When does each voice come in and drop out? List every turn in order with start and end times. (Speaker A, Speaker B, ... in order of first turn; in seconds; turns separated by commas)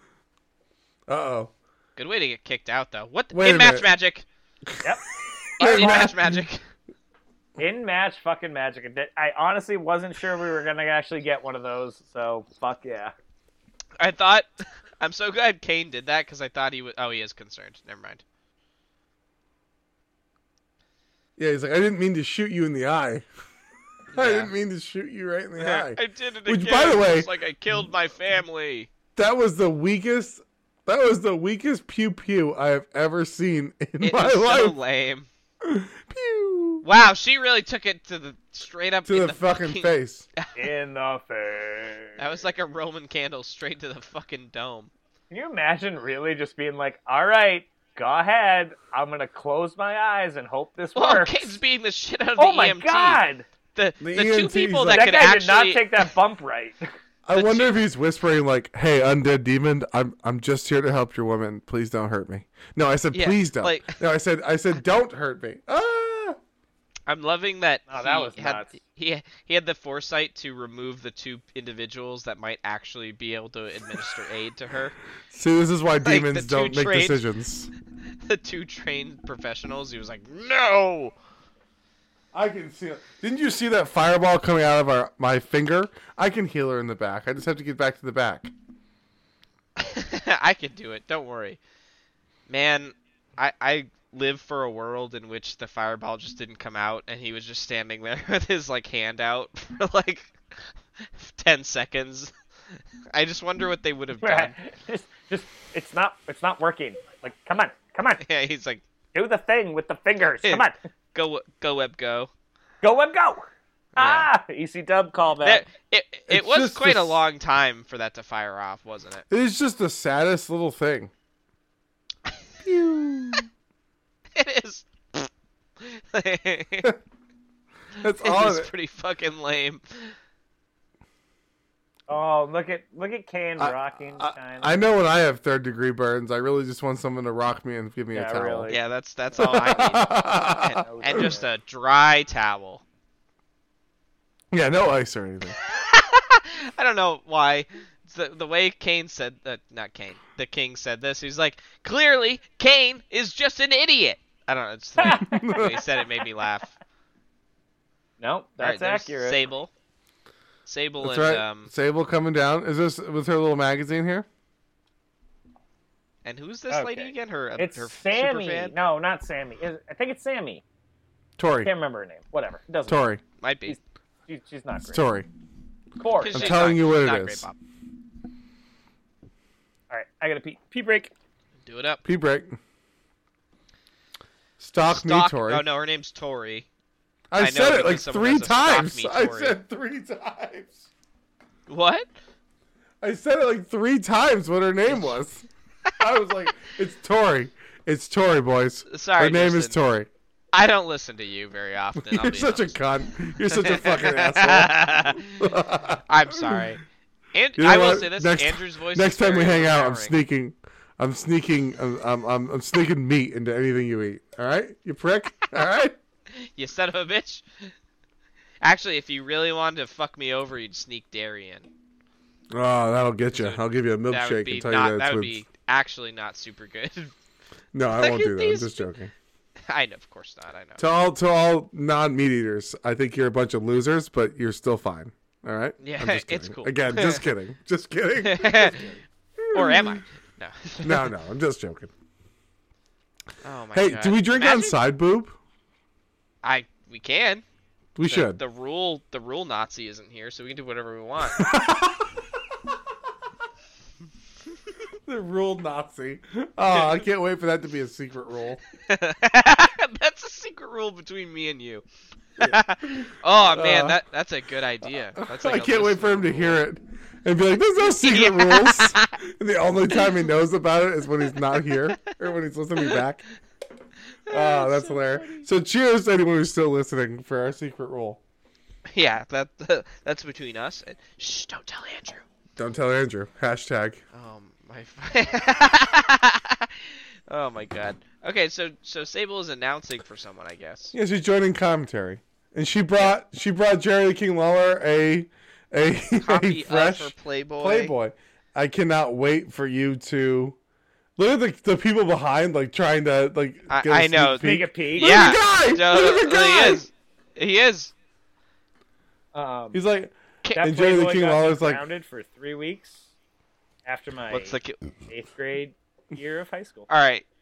Speaker A: 1.1-1.5, Speaker B: 2.0-4.2, Speaker A: 3.3-3.9, Speaker A: 4.7-6.5, Speaker B: 5.6-6.6, Speaker C: 7.6-13.1, Speaker B: 14.0-14.5, Speaker B: 15.0-18.2, Speaker A: 21.4-23.3, Speaker B: 24.1-24.5, Speaker A: 24.1-27.3, Speaker B: 25.6-28.9, Speaker A: 29.2-34.8, Speaker B: 34.0-35.3, Speaker A: 35.6-36.9, Speaker B: 36.8-40.6, Speaker A: 39.1-40.3, Speaker C: 40.5-42.2, Speaker B: 42.2-44.9, Speaker C: 45.3-51.6, Speaker B: 51.0-53.2, Speaker C: 52.4-53.5, Speaker B: 53.8-56.1, Speaker A: 54.0-55.1, Speaker C: 54.9-56.8, Speaker A: 57.3-66.4, Speaker B: 57.3-57.8, Speaker B: 63.1-64.0, Speaker B: 67.1-75.0, Speaker C: 67.9-68.7, Speaker A: 75.3-77.7, Speaker B: 76.0-77.2, Speaker B: 78.2-81.1, Speaker A: 82.3-88.5, Speaker B: 89.8-91.6, Speaker B: 92.5-102.3, Speaker B: 103.1-104.5, Speaker C: 104.2-108.2, Speaker B: 108.2-108.8, Speaker C: 109.1-110.8, Speaker B: 110.4-112.3, Speaker C: 112.8-115.7, Speaker B: 114.0-114.3, Speaker B: 115.4-119.3, Speaker A: 116.3-117.2, Speaker A: 119.3-121.1, Speaker A: 122.6-123.5, Speaker B: 124.4-125.3, Speaker B: 125.8-126.9, Speaker A: 128.0-128.7, Speaker B: 128.1-130.1, Speaker C: 132.1-134.8, Speaker A: 133.6-138.7, Speaker C: 138.1-138.8, Speaker B: 138.7-142.8, Speaker A: 139.4-141.4, Speaker C: 140.8-141.5, Speaker A: 144.5-145.6, Speaker B: 145.6-156.7, Speaker C: 155.0-155.9, Speaker A: 155.1-155.8, Speaker C: 158.2-159.4, Speaker B: 158.6-159.7, Speaker B: 160.7-161.7, Speaker A: 161.0-164.3, Speaker B: 166.2-168.7, Speaker C: 166.7-170.6, Speaker A: 171.4-171.7, Speaker C: 171.6-173.0, Speaker A: 172.9-173.2, Speaker B: 173.4-173.8, Speaker C: 173.7-175.0, Speaker A: 174.9-175.3, Speaker C: 176.0-176.6, Speaker B: 176.2-177.6, Speaker A: 176.3-177.5, Speaker C: 179.9-181.1, Speaker B: 181.7-182.0, Speaker A: 182.0-182.6, Speaker A: 184.6-185.6, Speaker B: 184.9-186.7, Speaker A: 187.3-190.9, Speaker B: 187.4-189.6, Speaker B: 191.7-192.1, Speaker A: 193.0-195.5, Speaker B: 194.9-195.2, Speaker A: 196.0-200.1, Speaker B: 198.9-199.8, Speaker B: 200.5-202.8, Speaker A: 202.0-206.7, Speaker B: 203.5-205.5, Speaker B: 206.1-206.8, Speaker B: 207.3-210.2, Speaker A: 207.6-216.0, Speaker B: 216.4-217.7, Speaker B: 218.6-221.7, Speaker A: 222.5-225.4, Speaker B: 223.3-227.1, Speaker A: 227.7-229.1, Speaker B: 227.9-228.9, Speaker B: 229.7-230.8, Speaker A: 230.8-240.0, Speaker B: 235.8-237.2, Speaker B: 238.2-238.9, Speaker B: 239.5-241.1, Speaker A: 240.8-241.9, Speaker B: 243.4-244.8, Speaker A: 243.7-245.4, Speaker B: 246.4-247.4, Speaker A: 248.0-248.4, Speaker B: 248.1-251.5, Speaker A: 251.3-252.3, Speaker A: 255.1-258.6, Speaker B: 256.7-257.0, Speaker B: 258.9-261.8, Speaker B: 262.4-266.6, Speaker A: 262.4-264.0, Speaker A: 265.2-273.3, Speaker B: 268.0-269.2, Speaker B: 271.8-272.1, Speaker B: 274.3-275.4, Speaker A: 274.3-278.2, Speaker B: 278.9-282.2, Speaker A: 282.6-284.0, Speaker B: 284.1-290.9, Speaker A: 290.9-300.6, Speaker B: 296.2-297.9, Speaker A: 301.2-306.8, Speaker B: 303.7-307.9, Speaker C: 304.4-305.2, Speaker C: 309.4-309.8, Speaker A: 309.7-311.8, Speaker C: 310.6-313.1, Speaker C: 313.9-316.9, Speaker B: 314.3-314.8, Speaker B: 316.9-317.3